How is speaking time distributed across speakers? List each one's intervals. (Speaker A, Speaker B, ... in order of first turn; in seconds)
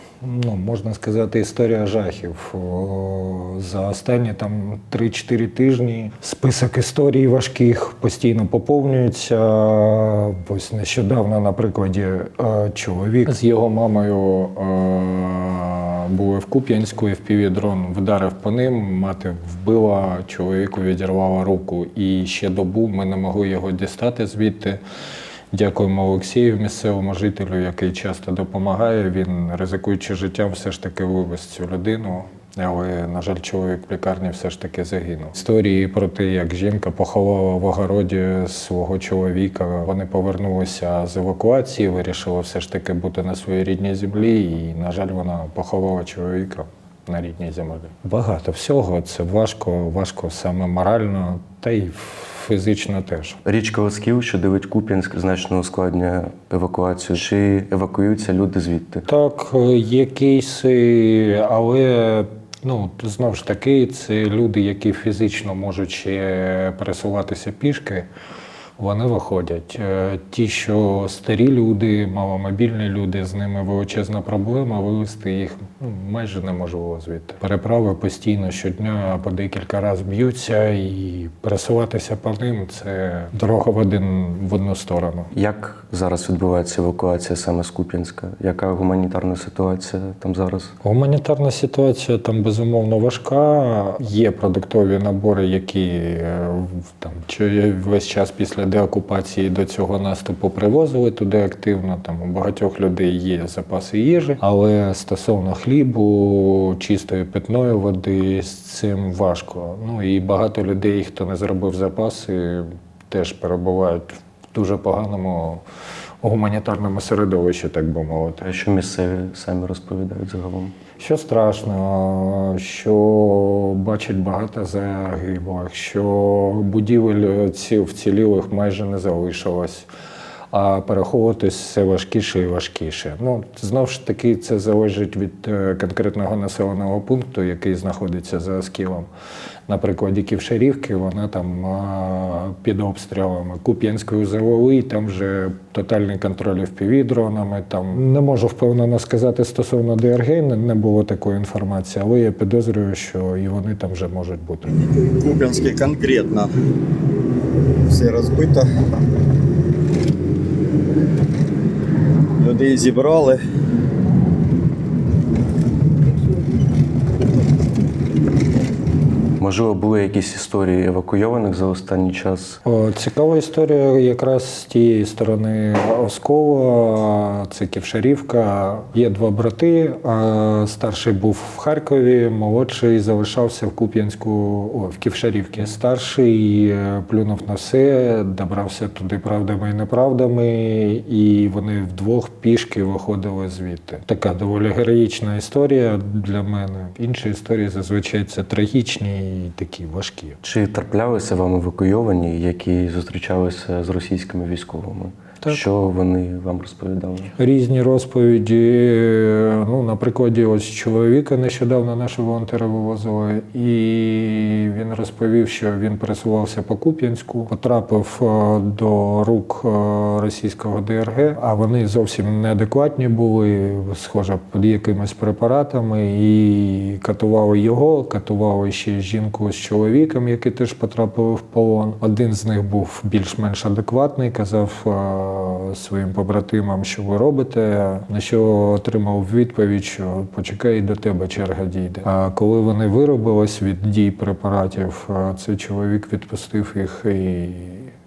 Speaker A: 0.2-24.8, 25.5-53.4, 59.1-68.1, 68.8-85.3, 90.8-115.6, 116.2-118.5, 121.0-129.9, 130.5-139.1, 139.7-154.7, 172.7-200.4, 207.4-247.9
Speaker B: 53.5-59.1, 85.3-90.8, 118.4-120.8, 169.4-172.6, 200.4-207.3
Speaker C: 154.7-156.5, 157.9-158.7, 162.4-163.4